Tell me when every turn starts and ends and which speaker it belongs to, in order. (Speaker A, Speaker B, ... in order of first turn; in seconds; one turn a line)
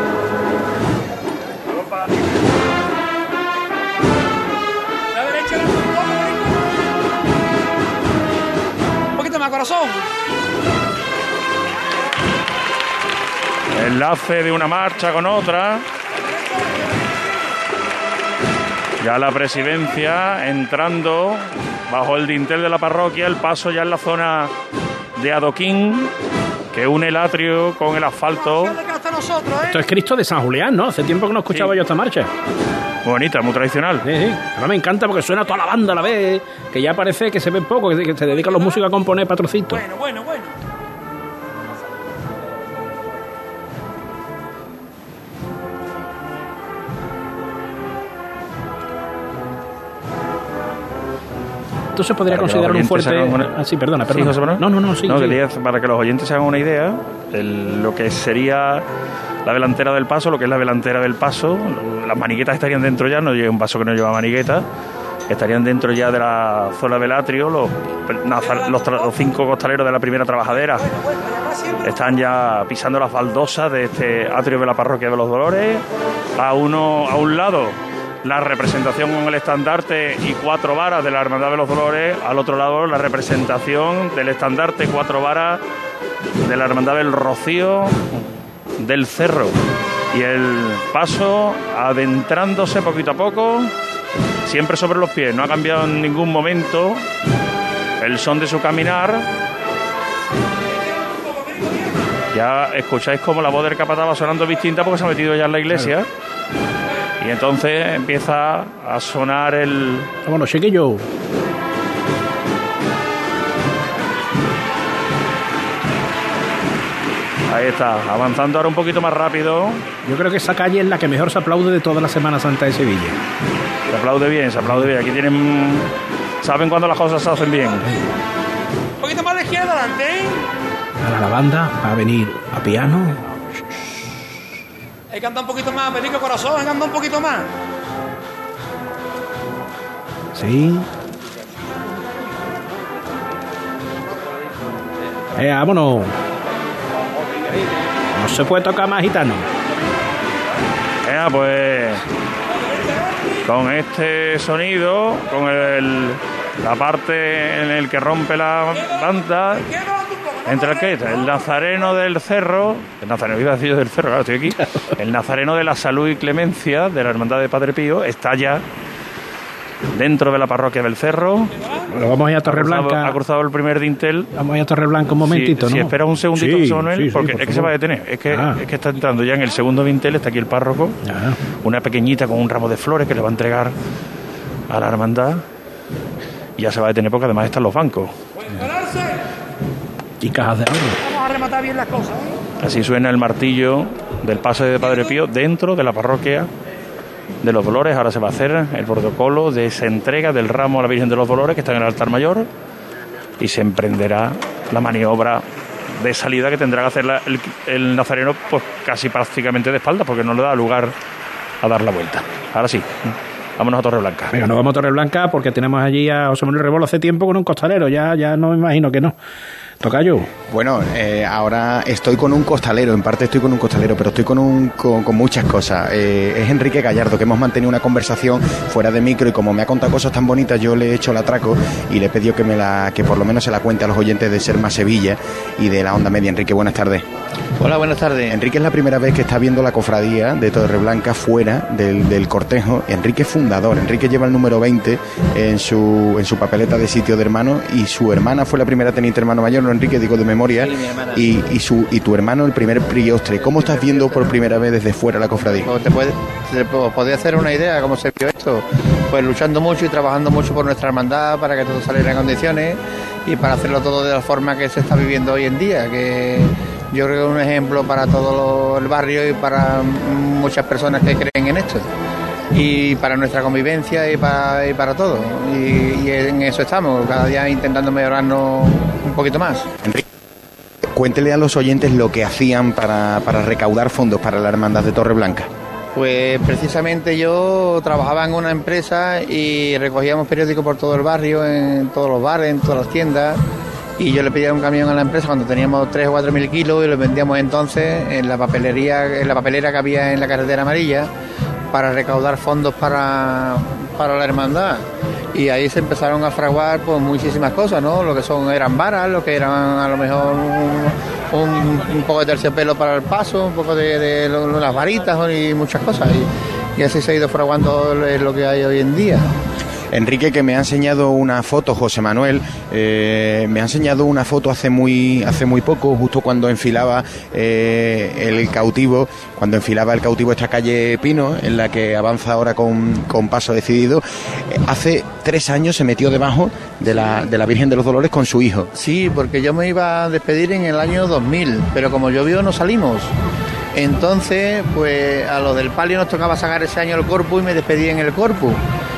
Speaker A: 5.1-6.3
Speaker A: 9.2-10.0
Speaker B: 13.7-15.8
Speaker B: 19.0-24.5
Speaker B: 25.2-26.1
Speaker B: 26.7-28.8
Speaker A: 28.4-29.8
Speaker C: 29.6-32.3
Speaker B: 31.5-31.8
Speaker B: 33.0-34.0
Speaker C: 34.0-39.8
Speaker A: 38.3-38.8
Speaker A: 39.7-40.5
Speaker C: 51.9-55.4
Speaker B: 52.3-53.5
Speaker B: 54.1-58.8
Speaker B: 59.4-64.7
Speaker B: 65.3-70.9
Speaker A: 68.5-69.0
Speaker A: 71.0-72.0
Speaker B: 71.8-75.8
Speaker B: 76.4-85.6
Speaker B: 86.4-89.6
Speaker B: 90.1-93.7
Speaker B: 94.4-97.0
Speaker B: 98.0-99.2
Speaker B: 102.3-106.1
Speaker B: 107.2-110.1
Speaker C: 110.2-111.0
Speaker B: 117.5-119.8
Speaker C: 120.0-123.2
Speaker B: 123.9-125.9
Speaker B: 126.4-127.9
Speaker A: 129.0-130.4
Speaker C: 131.0-133.2
Speaker A: 135.1-137.5
Speaker C: 140.3-140.9
Speaker C: 145.3-146.1
Speaker C: 148.1-149.5
Speaker B: 151.0-152.0
Speaker B: 153.4-159.7
Speaker A: 159.6-161.2
Speaker B: 160.4-168.6
Speaker B: 169.9-171.5
Speaker C: 171.9-173.2
Speaker B: 172.4-174.3
Speaker C: 174.3-177.7
Speaker B: 175.2-181.0
Speaker C: 178.3-178.6
Speaker C: 181.0-181.4
Speaker B: 181.6-183.7
Speaker B: 184.7-185.4
Speaker B: 186.6-188.1
Speaker A: 188.6-189.0
Speaker C: 190.2-191.0
Speaker A: 191.1-192.3
Speaker B: 192.6-196.5
Speaker B: 197.4-202.5
Speaker B: 203.4-205.4
Speaker B: 205.9-210.9
Speaker B: 211.6-214.4
Speaker C: 214.3-219.1
Speaker C: 219.8-220.3
Speaker D: 220.5-237.1
Speaker E: 237.6-238.4
Speaker D: 238.3-255.7
Speaker E: 250.6-251.2
Speaker E: 253.5-254.4
Speaker E: 255.4-271.9
Speaker E: 272.5-279.7
Speaker D: 280.9-285.5
Speaker E: 285.9-293.4
Speaker E: 294.0-301.1
Speaker E: 301.7-319.3
Speaker D: 319.9-338.7
Speaker E: 338.7-343.1
Speaker E: 343.7-348.6